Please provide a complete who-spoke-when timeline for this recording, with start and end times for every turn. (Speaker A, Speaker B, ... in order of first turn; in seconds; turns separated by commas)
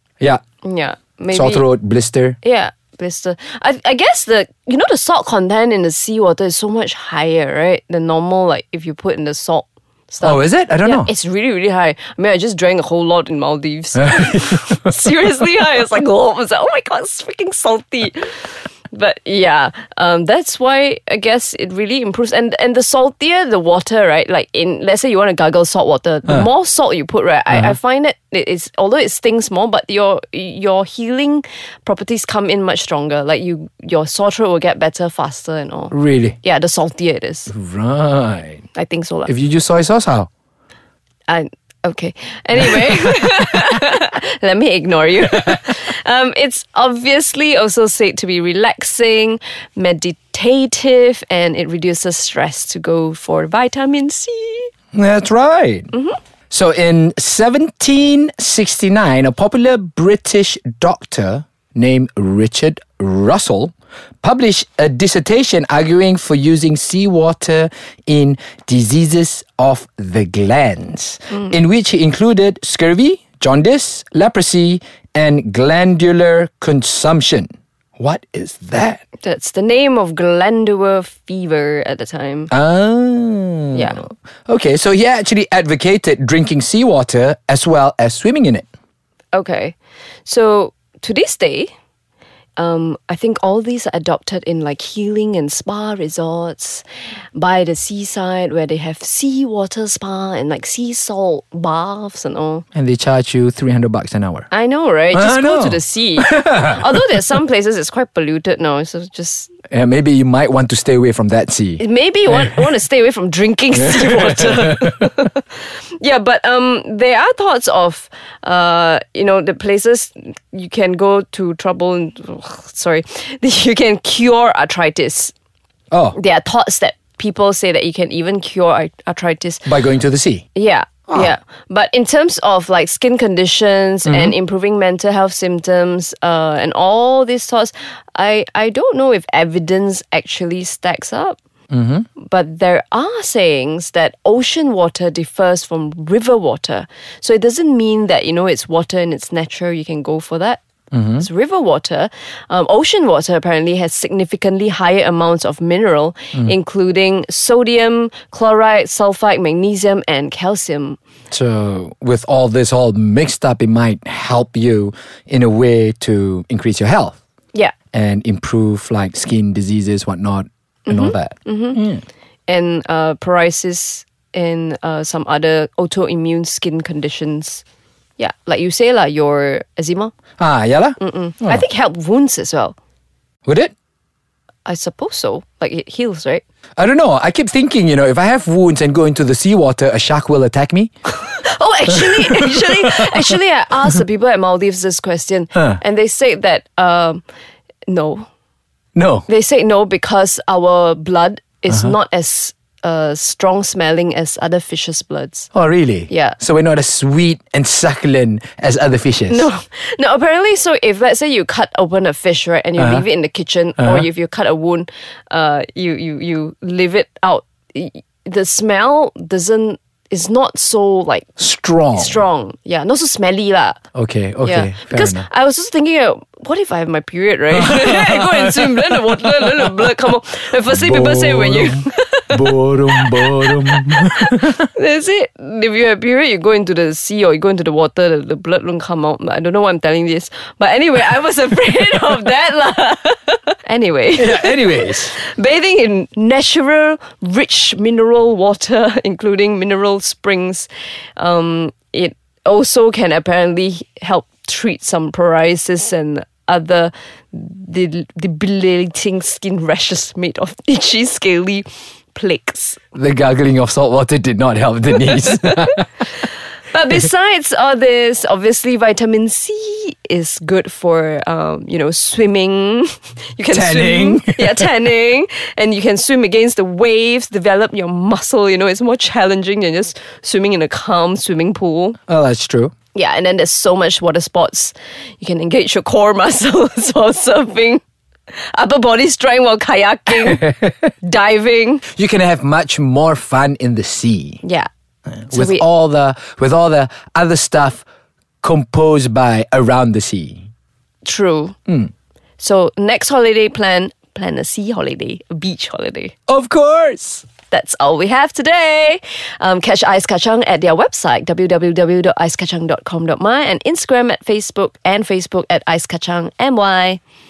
Speaker A: 0.6-1.7, Speaker B: 1.3-2.4, Speaker A: 2.4-18.4, Speaker B: 10.2-11.1, Speaker A: 18.9-37.5, Speaker B: 35.9-36.4, Speaker B: 37.5-38.6, Speaker A: 38.7-39.3, Speaker B: 39.3-40.3, Speaker A: 41.3-54.7, Speaker B: 54.9-55.9, Speaker A: 55.9-56.2, Speaker B: 56.5-79.0, Speaker A: 79.2-82.5, Speaker B: 82.5-88.7, Speaker A: 83.7-84.0, Speaker A: 89.3-91.7, Speaker A: 92.6-102.6, Speaker B: 102.7-104.5, Speaker A: 104.5-109.5, Speaker B: 105.1-106.8, Speaker B: 109.7-111.8, Speaker A: 111.8-125.3, Speaker B: 113.8-115.0, Speaker B: 125.9-126.2, Speaker A: 126.1-129.7, Speaker B: 129.6-130.4, Speaker A: 130.5-141.4, Speaker B: 131.1-131.3, Speaker B: 134.1-134.3, Speaker B: 141.7-142.1, Speaker A: 142.2-150.6, Speaker B: 150.9-151.3, Speaker A: 151.2-161.0, Speaker B: 161.3-167.2, Speaker B: 167.9-172.0, Speaker A: 170.9-171.8, Speaker A: 172.5-177.6, Speaker A: 178.2-180.1, Speaker B: 180.4-181.6, Speaker A: 181.0-182.7, Speaker B: 183.4-183.7, Speaker A: 184.6-186.4, Speaker B: 186.8-190.9, Speaker A: 191.1-197.2, Speaker B: 191.9-193.3, Speaker A: 197.9-198.3, Speaker B: 198.9-199.3, Speaker A: 199.3-205.5, Speaker B: 201.7-201.9, Speaker B: 205.5-209.5, Speaker A: 206.1-206.4, Speaker A: 209.3-221.3, Speaker B: 212.8-213.0, Speaker B: 213.8-214.1, Speaker B: 221.4-222.2, Speaker A: 221.9-223.8, Speaker B: 223.9-225.3, Speaker A: 224.4-262.8, Speaker B: 227.5-229.8, Speaker B: 230.7-234.6, Speaker B: 244.1-245.2, Speaker B: 262.9-265.9, Speaker A: 265.1-265.8, Speaker A: 266.7-282.0, Speaker B: 273.5-274.7, Speaker B: 282.1-282.7, Speaker A: 282.9-287.8, Speaker A: 288.5-291.9, Speaker B: 290.3-290.6, Speaker B: 291.9-294.4, Speaker A: 294.4-294.7, Speaker B: 295.3-297.8, Speaker A: 295.3-295.6, Speaker B: 298.4-300.4, Speaker A: 301.0-301.6, Speaker A: 302.4-306.1, Speaker B: 306.3-307.2, Speaker A: 307.5-317.0